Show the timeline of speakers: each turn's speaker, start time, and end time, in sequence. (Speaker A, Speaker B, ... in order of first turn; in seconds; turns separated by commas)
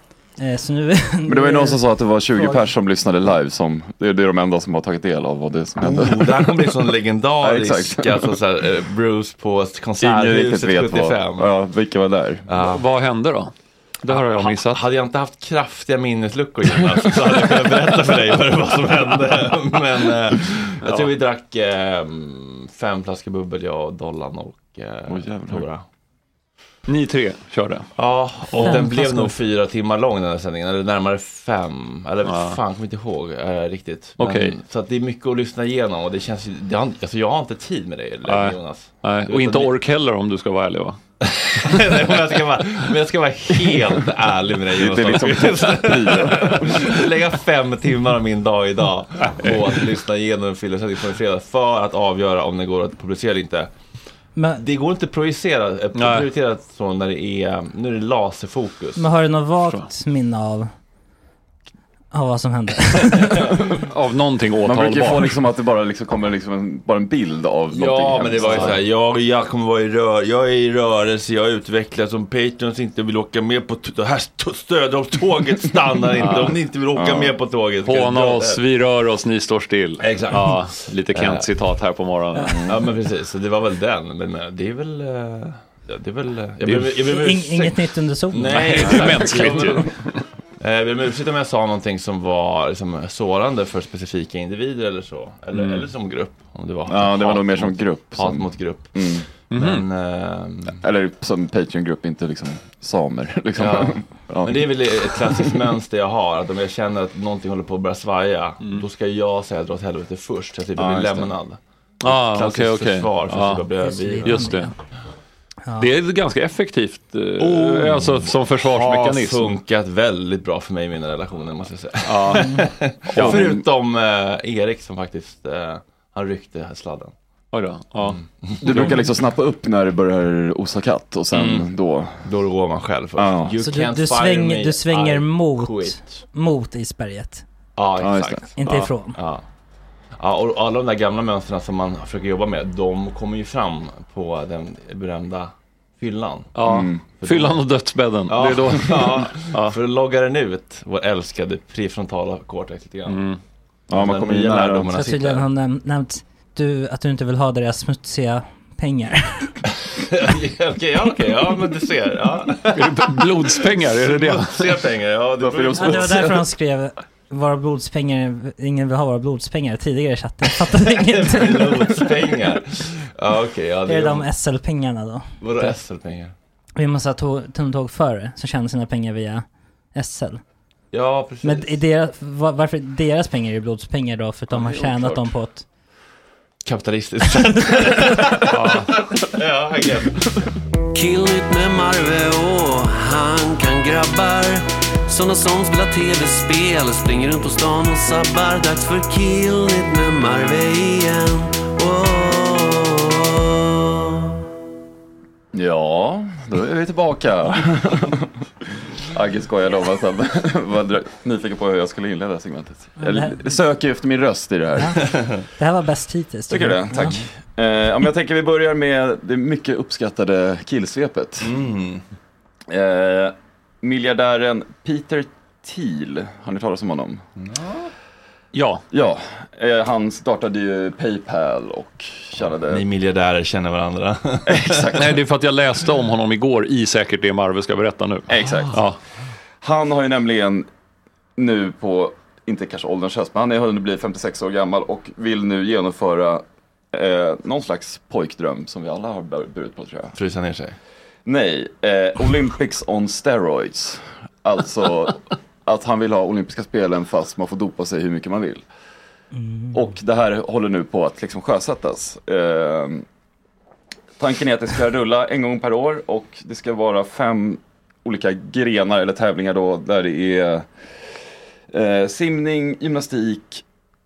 Speaker A: 0.4-1.8, Speaker B: 1.3-6.7, Speaker A: 2.3-2.6, Speaker C: 5.8-11.5, Speaker B: 7.4-8.3, Speaker B: 10.0-12.5, Speaker C: 12.5-12.8, Speaker D: 12.6-14.8, Speaker C: 14.1-25.8, Speaker D: 20.8-21.1, Speaker B: 25.1-25.6, Speaker D: 26.9-27.9, Speaker C: 27.9-39.7, Speaker A: 28.6-29.3, Speaker D: 32.2-32.6, Speaker D: 34.2-34.5, Speaker D: 38.2-41.0, Speaker C: 41.2-53.7, Speaker B: 44.7-46.9, Speaker D: 49.2-49.6, Speaker A: 54.4-54.6, Speaker C: 54.6-59.0, Speaker D: 55.9-56.2, Speaker A: 59.0-60.7, Speaker A: 62.1-63.5, Speaker D: 63.7-65.4, Speaker B: 64.6-68.8, Speaker C: 67.7-78.6, Speaker D: 68.4-68.8, Speaker D: 76.2-76.5, Speaker B: 76.9-77.3, Speaker D: 77.8-82.6, Speaker C: 80.0-81.5, Speaker B: 82.5-82.8, Speaker C: 82.6-89.9, Speaker D: 86.6-86.9, Speaker A: 87.1-89.1, Speaker D: 88.5-90.2, Speaker C: 90.6-100.8, Speaker D: 95.5-95.8, Speaker B: 96.9-99.3, Speaker D: 99.5-99.8, Speaker B: 100.8-105.5, Speaker C: 103.6-114.6, Speaker B: 110.8-111.3, Speaker D: 112.0-113.7, Speaker A: 113.8-114.7, Speaker D: 114.2-114.7, Speaker D: 115.8-119.5, Speaker C: 117.4-127.1, Speaker D: 122.0-123.5, Speaker A: 122.4-122.7, Speaker B: 123.2-123.6, Speaker D: 127.5-129.0, Speaker C: 128.4-129.0, Speaker B: 128.6-132.3, Speaker C: 131.3-131.7, Speaker C: 132.2-136.2, Speaker B: 133.2-133.5, Speaker A: 133.6-137.4, Speaker C: 137.8-138.6, Speaker B: 138.0-138.4, Speaker A: 138.6-139.2, Speaker C: 139.1-139.4, Speaker C: 140.1-146.5, Speaker D: 146.5-149.7, Speaker B: 146.6-147.0, Speaker C: 147.2-147.6, Speaker C: 148.3-153.2, Speaker D: 153.1-153.4, Speaker B: 153.9-154.9, Speaker C: 153.9-155.4, Speaker A: 154.9-159.6, Speaker C: 159.9-166.2, Speaker D: 162.7-164.7, Speaker B: 165.4-166.4, Speaker A: 165.8-172.1, Speaker C: 170.8-174.3, Speaker A: 173.9-175.3, Speaker C: 175.4-176.3, Speaker A: 176.8-180.4, Speaker C: 180.9-181.8, Speaker A: 181.4-185.7, Speaker B: 184.5-185.2, Speaker C: 186.6-190.3, Speaker D: 188.5-188.9, Speaker E: 190.9-203.6, Speaker B: 205.5-208.3, Speaker B: 209.0-215.1, Speaker A: 213.0-213.6, Speaker A: 215.6-217.2, Speaker B: 216.5-221.6, Speaker C: 221.4-222.0, Speaker B: 222.7-227.2, Speaker C: 227.4-227.9, Speaker D: 228.5-228.8, Speaker B: 228.9-232.8, Speaker C: 232.7-235.0, Speaker B: 234.5-235.1, Speaker D: 234.9-239.0, Speaker B: 238.3-238.8, Speaker C: 238.4-238.7, Speaker B: 239.6-240.7, Speaker B: 241.4-250.2, Speaker C: 250.1-250.8, Speaker B: 251.2-258.6, Speaker A: 259.3-259.7, Speaker B: 259.7-263.0, Speaker B: 264.2-270.7, Speaker B: 271.7-273.6